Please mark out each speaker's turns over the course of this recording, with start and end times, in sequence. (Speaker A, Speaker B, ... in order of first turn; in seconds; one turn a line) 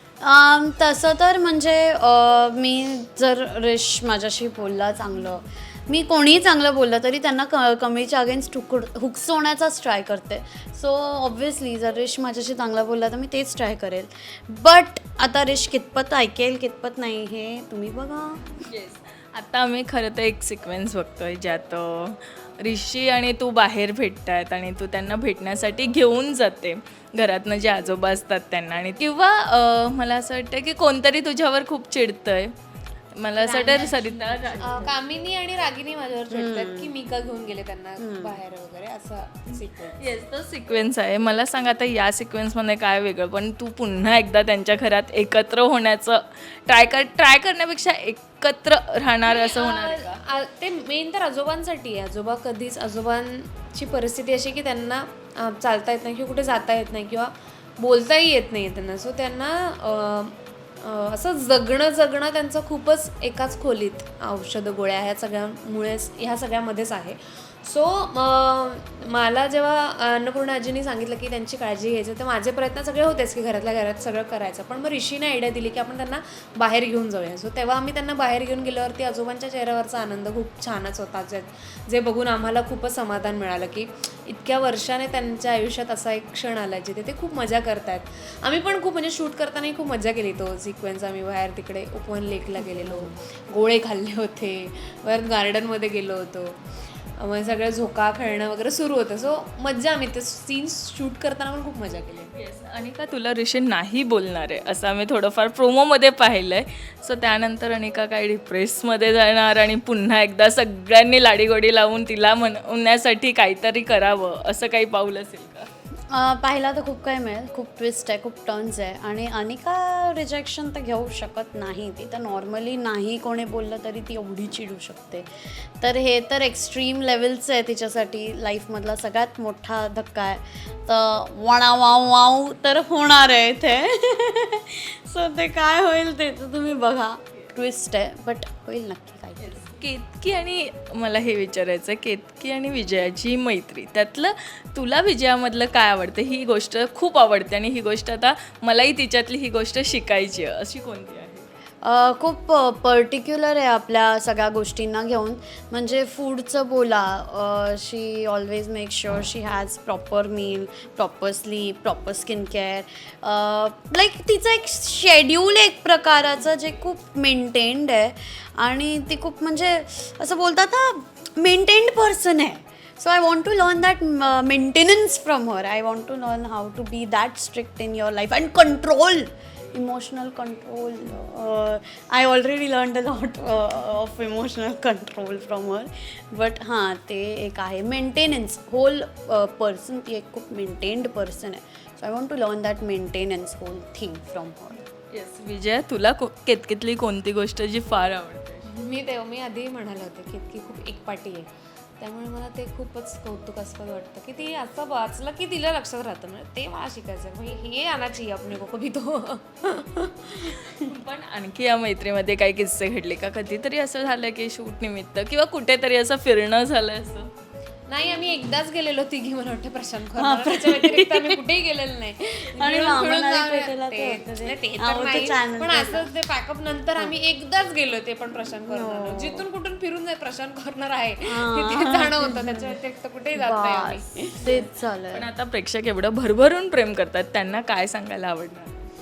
Speaker A: 0.2-18.4
Speaker B: 18.6-32.5
Speaker B: 33.1-34.9
Speaker C: 33.4-40.1
Speaker A: 36.3-36.9
Speaker A: 38.0-38.3
Speaker B: 40.0-50.2
Speaker C: 49.3-96.6
Speaker A: 92.6-93.1
Speaker C: 97.2-102.3
Speaker B: 102.3-115.7
Speaker A: 116.1-139.6
Speaker B: 139.4-151.4
Speaker A: 151.8-194.8
Speaker B: 195.1-198.6
Speaker C: 198.7-201.5
Speaker C: 202.0-210.9
Speaker B: 210.8-217.3
Speaker C: 217.9-234.7
Speaker A: 220.2-221.4
Speaker A: 222.5-226.1
Speaker A: 228.6-229.4
Speaker A: 231.3-232.7
Speaker A: 233.3-235.2
Speaker B: 235.1-238.8